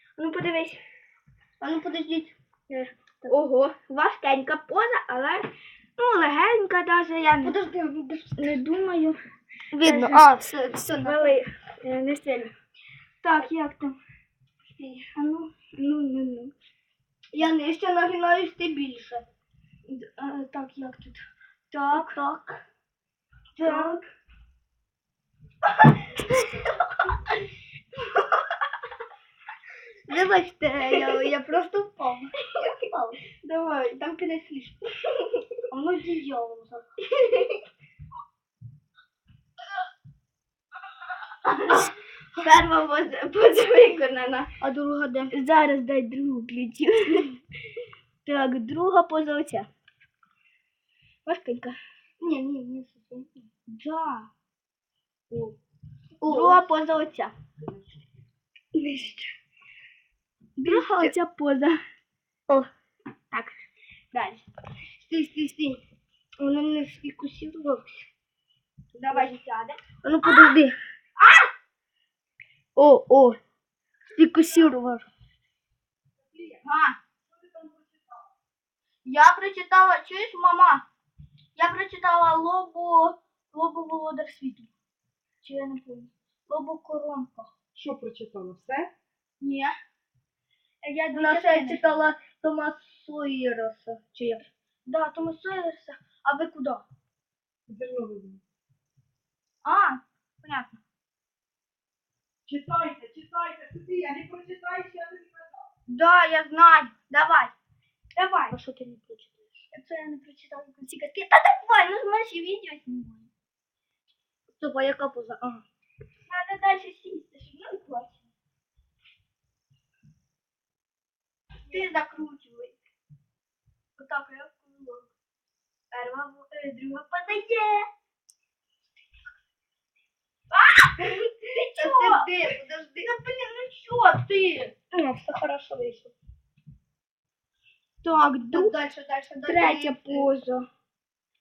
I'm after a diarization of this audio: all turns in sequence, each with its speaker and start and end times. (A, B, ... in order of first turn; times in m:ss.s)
0:00.2-0:00.8 A
0:01.6-0:02.3 B
0:02.7-0:07.6 A
0:07.4-0:08.6 B
0:08.4-0:09.2 A
0:09.7-0:11.4 B
0:09.8-0:10.3 A
0:11.0-0:12.5 A
0:13.2-0:14.0 A
0:14.7-0:15.1 B
0:15.1-0:16.5 A
0:17.3-0:19.3 B
0:19.9-0:22.2 A
0:21.9-0:22.6 B
0:23.6-0:24.0 A
0:23.6-0:24.0 B
0:26.0-0:26.7 A
0:30.1-0:33.2 B
0:33.3-0:34.1 A
0:34.0-0:34.8 B
0:35.7-0:36.8 B
0:37.2-0:37.5 A
0:41.5-0:44.5 A
0:44.6-0:45.3 B
0:45.3-0:47.3 A
0:48.2-0:49.7 A
0:51.3-0:51.8 A
0:52.2-0:53.5 B
0:53.7-0:54.3 A
0:56.2-0:56.7 B
0:56.3-0:57.3 A
0:58.8-0:59.3 B
1:00.6-1:01.8 A
1:00.6-1:01.1 B
1:03.3-1:03.6 A
1:04.1-1:04.5 A
1:05.0-1:05.8 B
1:06.4-1:08.1 B
1:09.0-1:10.5 A
1:09.1-1:09.4 B
1:10.0-1:10.8 B
1:11.2-1:11.5 A
1:12.8-1:13.4 B
1:14.1-1:15.1 B
1:16.6-1:17.0 A
1:17.5-1:17.9 C
1:19.0-1:20.8 A
1:21.6-1:24.7 A
1:25.4-1:27.5 A
1:27.8-1:28.9 C
1:29.4-1:29.7 A
1:30.8-1:31.8 A
1:31.1-1:34.4 B
1:34.9-1:36.8 A
1:37.7-1:38.4 C
1:39.6-1:40.8 A
1:42.5-1:45.6 C
1:45.9-1:47.5 A
1:48.2-1:48.6 A
1:48.5-1:49.5 B
1:49.7-1:53.3 A
1:54.6-1:55.6 B
1:56.3-1:58.3 A
2:01.7-2:02.8 A
2:01.7-2:01.9 B
2:04.0-2:05.1 A
2:05.9-2:07.9 A
2:10.5-2:12.5 A
2:11.7-2:13.1 B
2:13.1-2:14.7 A
2:14.9-2:16.1 B
2:18.0-2:18.8 A
2:18.5-2:20.3 B
2:19.5-2:20.6 A